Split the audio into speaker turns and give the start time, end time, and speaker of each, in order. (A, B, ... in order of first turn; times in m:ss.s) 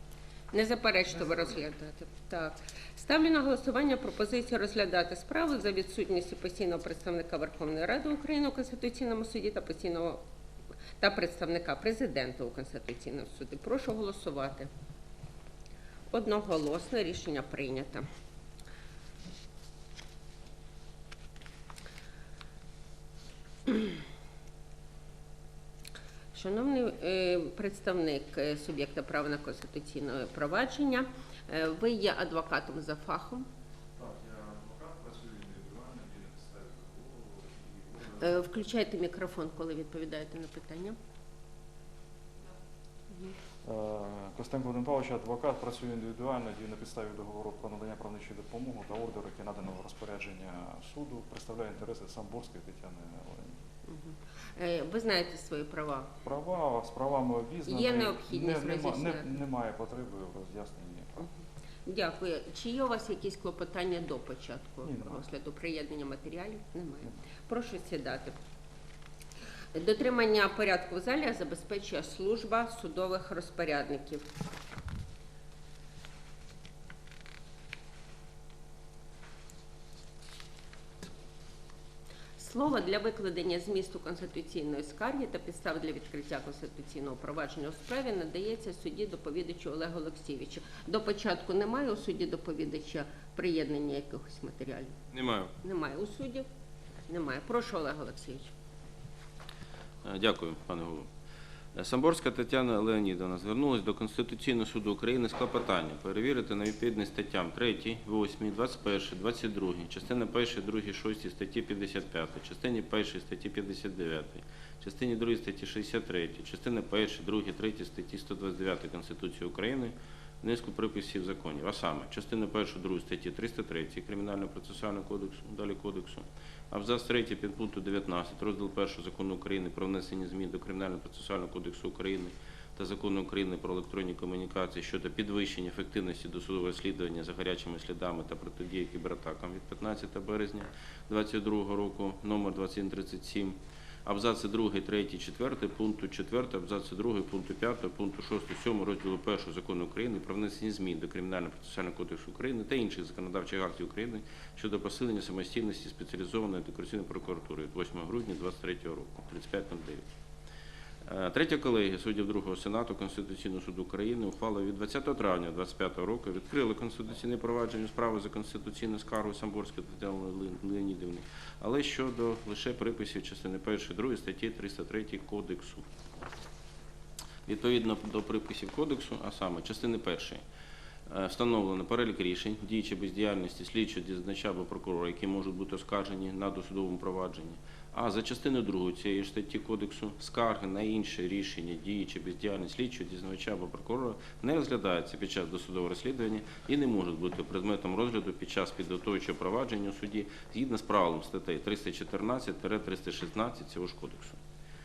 0:00.5-0:10.2 A
0:11.0-0:14.7 A
0:16.1-0:18.0 A
0:26.3-0:33.5 A
0:34.0-0:38.2 B
0:38.2-0:41.0 A
0:43.6-0:53.6 B
0:53.9-0:56.1 A
0:56.2-1:01.2 B
0:57.7-0:59.4 A
1:01.9-1:08.3 A
1:04.8-1:05.2 B
1:09.8-1:14.2 A
1:22.4-1:35.0 A
1:35.1-1:35.5 C
1:35.6-1:36.5 A
1:37.1-1:38.5 A
1:40.0-1:41.1 C
1:41.8-2:23.6 C
2:24.1-2:40.1 C
2:41.1-2:55.8 C
2:57.5-3:00.4 C
3:01.1-3:24.4 C